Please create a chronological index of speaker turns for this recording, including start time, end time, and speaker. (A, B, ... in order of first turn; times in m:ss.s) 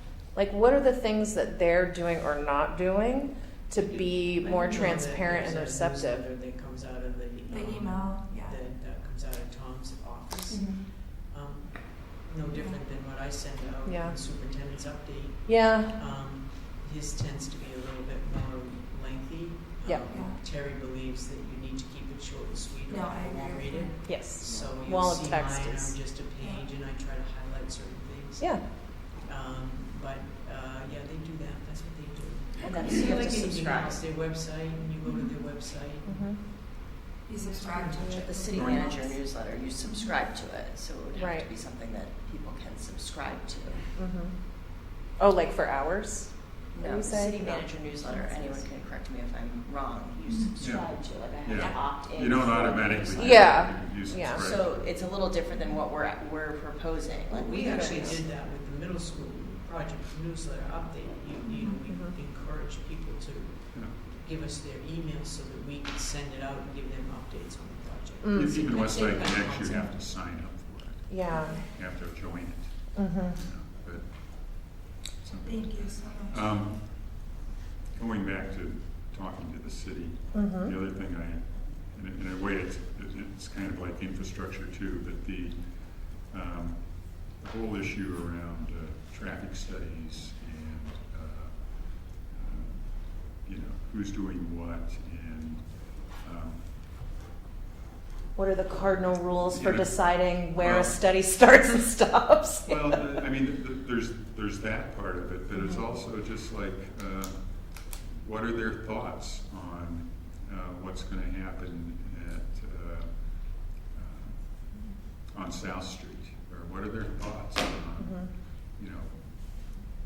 0:00.4-0:06.2 A
0:03.8-0:36.3 B
0:07.5-0:08.6 C
0:13.9-0:14.2 A
0:15.5-0:15.9 A
0:20.1-0:20.4 C
0:22.9-0:24.2 C
0:24.0-0:26.0 A
0:32.6-0:34.0 D
0:36.0-0:36.4 A
0:37.3-0:39.2 C
0:37.6-0:38.0 B
0:38.0-0:43.8 D
0:38.5-0:39.0 E
0:41.1-0:41.5 A
0:44.0-0:44.4 A
0:45.2-0:47.7 A
0:46.7-0:53.5 D
0:50.6-0:50.9 E
0:51.4-0:54.9 E
0:53.2-0:54.4 A
0:54.3-0:58.2 D
0:57.3-1:09.9 B
0:57.7-0:58.1 A
1:01.8-1:02.2 A
1:08.2-1:08.6 A
1:08.3-1:17.2 E
1:11.1-1:11.6 A
1:11.3-1:11.6 C
1:13.0-1:13.4 A
1:15.4-1:16.4 C
1:17.9-1:25.6 E
1:20.3-1:20.7 A
1:26.2-1:36.6 E
1:38.4-1:43.0 A
1:39.5-1:41.0 E
1:42.7-1:47.4 E
1:48.2-1:53.3 E
1:53.9-1:54.4 E
1:55.3-1:59.1 E
1:58.0-1:58.3 A